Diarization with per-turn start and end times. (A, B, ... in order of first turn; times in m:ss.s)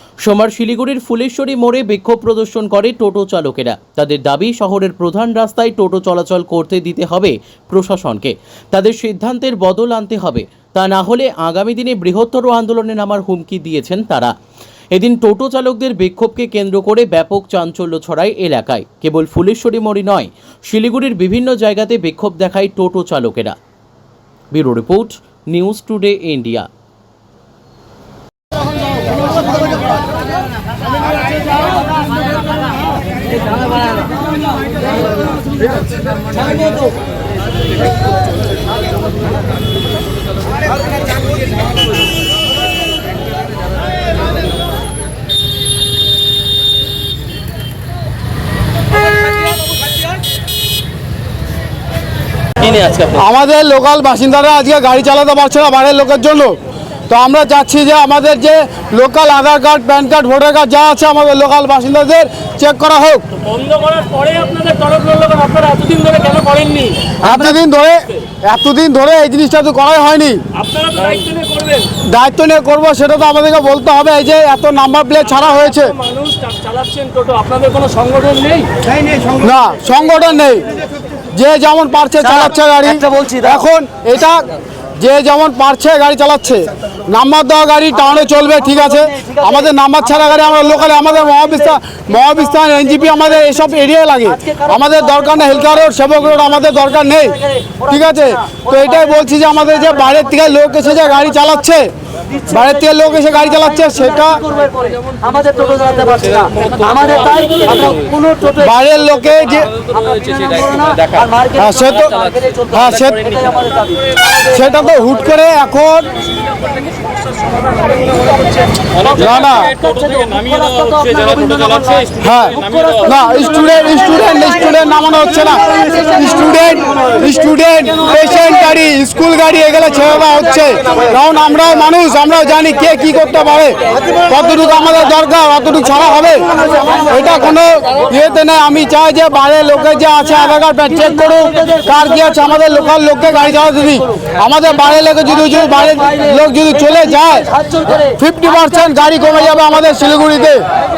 0:00.2-0:14.3 A
0:14.9-0:23.6 A
0:24.5-0:26.7 A
0:52.6-0:53.2 A
0:53.2-0:56.6 B
0:57.1-1:03.2 B
1:03.4-1:07.2 C
1:07.2-1:10.4 B
1:10.6-1:11.9 C
1:12.0-1:15.9 B
1:15.4-1:18.8 C
1:19.4-1:20.7 B
1:21.3-1:24.5 B
1:25.0-1:41.9 B
1:42.4-1:44.5 B
1:44.6-1:46.5 D
1:46.5-1:48.0 C
1:48.1-1:48.5 D
1:48.5-1:49.7 B
1:50.2-1:51.4 D
1:51.5-1:52.2 B
1:52.3-1:52.6 D
1:52.7-1:53.5 B
1:54.4-1:56.1 B
1:57.4-2:02.1 C
1:59.1-1:59.8 B
2:02.2-2:27.5 B
2:28.1-2:30.6 B